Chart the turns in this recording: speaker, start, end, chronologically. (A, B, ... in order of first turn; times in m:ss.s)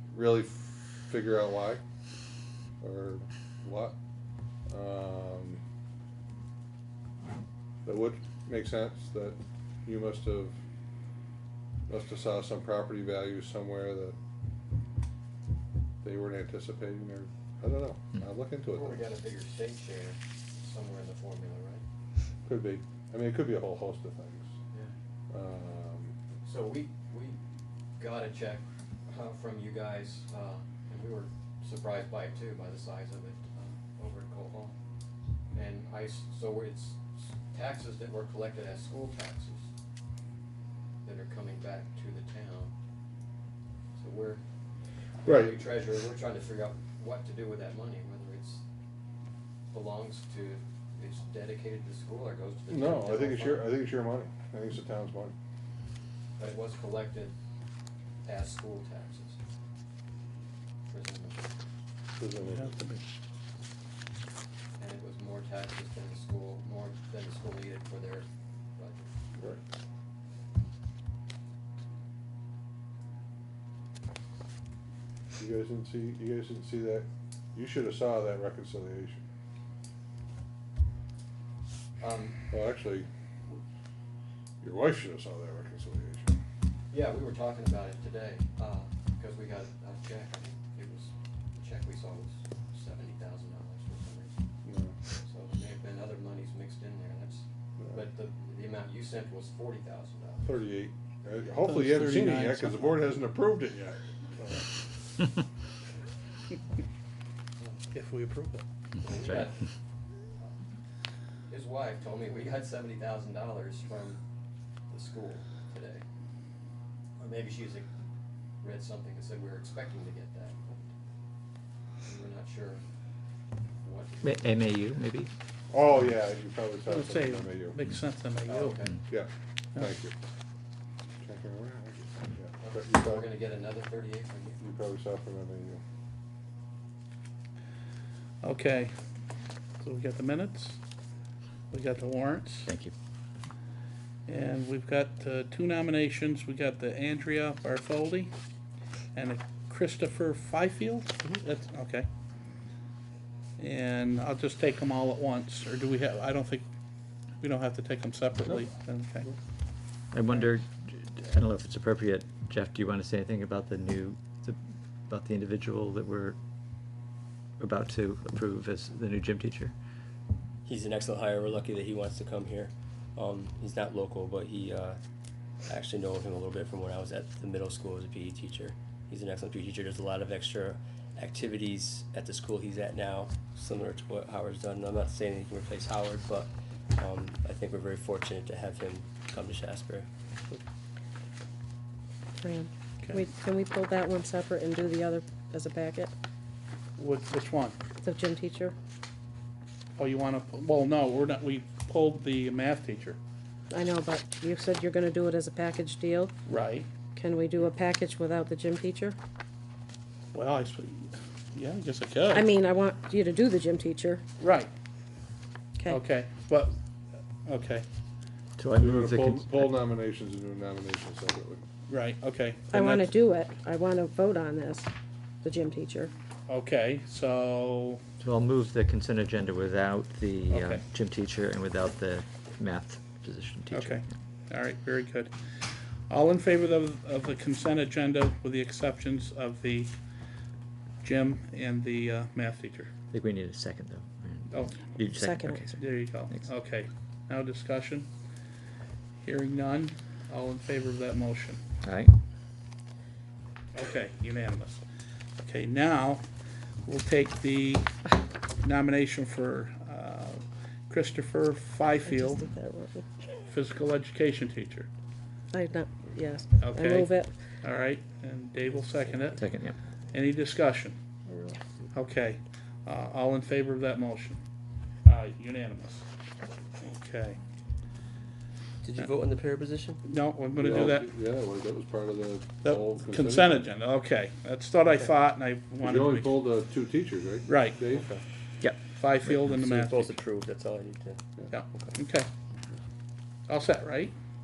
0:00.1-0:01.8 A
0:02.8-0:04.0 A
0:04.7-0:05.6 A
0:07.8-0:10.6 A
0:11.9-0:14.2 A
0:16.0-0:19.0 A
0:18.7-0:21.8 B
0:22.4-0:24.5 A
0:25.3-0:26.1 A
0:26.4-0:27.4 B
0:28.0-0:34.8 B
0:35.5-0:39.7 B
0:41.0-0:42.7 B
0:43.9-0:44.4 B
0:45.2-0:48.6 B
0:45.2-0:45.7 A
0:49.7-0:53.8 B
0:52.7-0:55.3 A
0:56.4-0:57.3 B
0:58.2-0:59.4 B
1:00.9-1:01.5 B
1:02.2-1:02.7 A
1:02.4-1:03.0 C
1:04.8-1:09.1 B
1:15.4-1:19.2 A
1:22.0-1:22.4 B
1:22.5-1:23.1 A
1:24.6-1:26.4 A
1:26.9-1:34.4 B
1:34.6-1:35.0 A
1:35.2-1:40.7 B
1:37.8-1:38.0 A
1:40.4-1:44.7 A
1:41.6-1:43.1 C
1:47.6-1:47.8 B
1:47.9-1:48.6 C
1:49.0-1:49.7 B
1:51.5-1:54.2 B
1:54.9-1:56.0 B
1:57.2-1:57.9 B
1:58.6-2:00.9 B
2:02.0-2:02.8 B
2:03.8-2:04.7 B
2:04.2-2:05.3 D
2:05.7-2:07.8 A
2:06.8-2:08.8 C
2:08.4-2:09.0 B
2:09.1-2:10.1 A
2:11.2-2:13.2 A
2:12.6-2:14.6 B
2:14.6-2:15.8 A
2:18.4-2:19.0 C
2:19.8-2:20.8 C
2:21.7-2:22.7 C
2:22.6-2:22.9 D
2:24.3-2:28.3 C
2:29.1-2:32.1 C
2:33.6-2:36.6 C
2:37.4-2:39.3 C
2:40.1-2:46.4 D
2:47.6-2:49.7 D
2:50.6-2:55.0 E
2:55.7-3:10.1 E
3:12.4-3:16.1 F
3:17.0-3:17.8 C
3:18.0-3:18.7 F
3:20.0-3:23.2 C
3:23.7-3:26.3 F
3:26.4-3:26.9 C
3:27.1-3:29.2 F
3:30.3-3:32.4 C
3:32.3-3:34.2 F
3:34.4-3:34.7 C
3:35.9-3:36.8 C
3:37.4-3:37.8 C
3:38.6-3:39.7 D
3:38.8-3:41.6 A
3:41.9-3:43.2 C
3:42.7-3:44.9 F
3:45.4-3:46.1 F
3:46.5-3:48.0 C
3:48.2-3:54.1 D
3:50.5-3:50.8 C
3:53.7-3:55.3 C
3:56.1-3:59.9 C
4:01.0-4:02.9 C
4:03.1-4:06.5 D
4:04.5-4:04.9 C
4:05.2-4:05.6 F
4:05.7-4:08.1 C
4:09.2-4:11.6 C
4:11.8-4:12.1 D
4:13.7-4:14.8 C
4:15.4-4:16.2 C
4:16.8-4:17.9 C
4:18.6-4:22.4 C
4:22.0-4:23.0 F
4:23.5-4:24.9 C
4:25.5-4:27.3 F
4:26.6-4:29.4 C
4:29.4-4:29.8 D
4:30.1-4:31.0 C
4:31.3-4:31.6 A
4:31.9-4:34.4 C
4:35.0-4:36.0 C
4:36.8-4:37.4 C
4:38.8-4:40.0 E
4:40.0-4:41.1 C
4:40.6-4:43.6 A
4:42.6-4:46.4 C
4:45.8-4:48.1 A
4:47.4-4:47.8 C
4:47.9-4:48.2 E
4:48.6-4:49.5 D
4:48.8-4:50.2 C
4:49.4-4:52.0 E
4:51.5-4:52.3 C
4:53.5-4:54.1 C